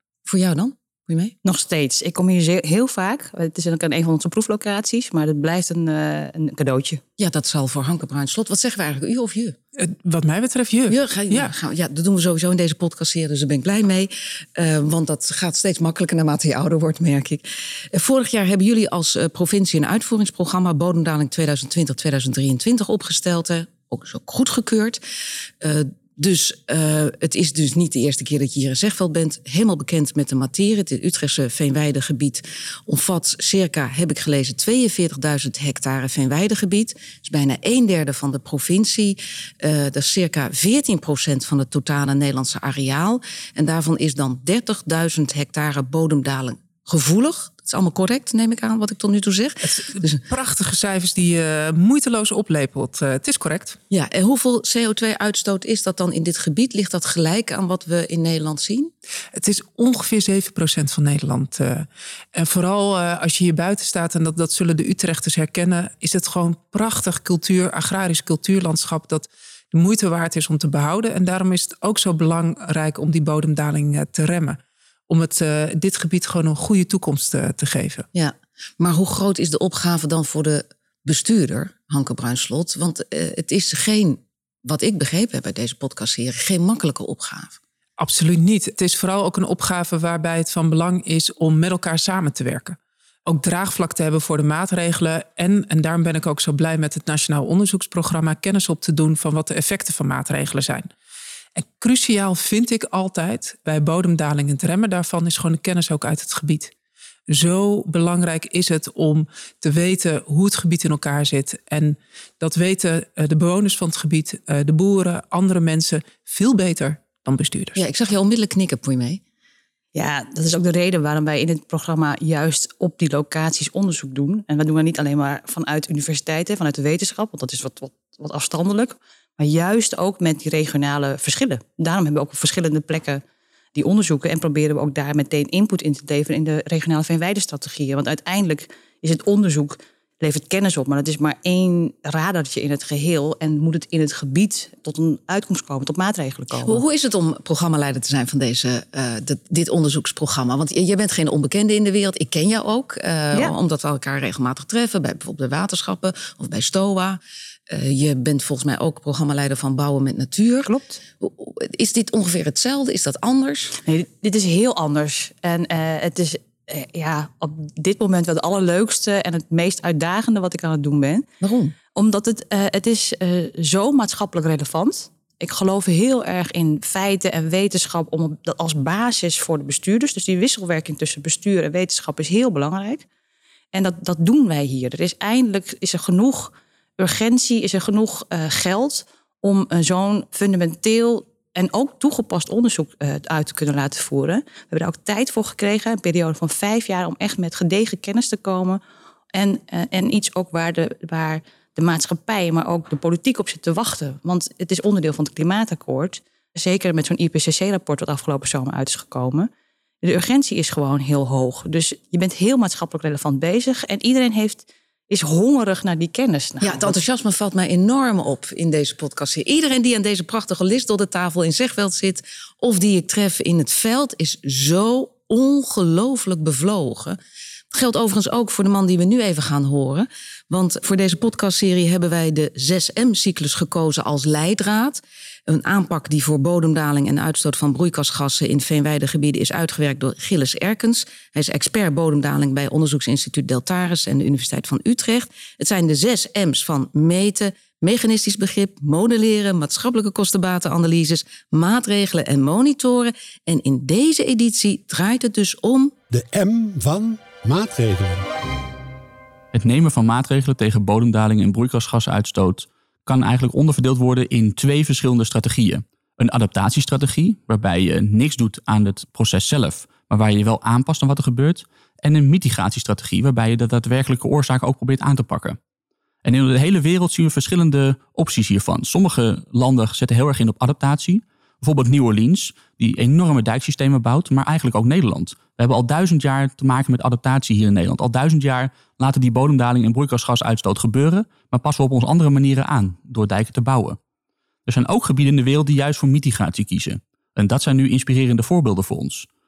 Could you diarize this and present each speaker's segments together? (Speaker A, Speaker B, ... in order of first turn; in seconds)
Speaker A: 0.3-1.4, 7.2-9.6, 10.9-25.0, 25.6-50.2, 53.9-58.9, 78.1-87.6, 117.8-119.2, 146.6-163.8, 171.4-171.8, 216.6-227.2, 227.7-255.9
Speaker B: 1.4-7.0, 119.9-133.2, 133.8-146.8, 160.6-161.0, 163.8-171.3, 171.9-183.1, 183.7-198.8, 199.3-209.5, 210.0-217.0
Speaker C: 9.8-11.5, 49.6-53.8, 59.4-78.1, 88.0-100.9, 101.5-106.7, 107.3-117.8
Speaker D: 256.1-258.3
Speaker E: 259.5-275.6, 276.2-294.0, 294.7-299.3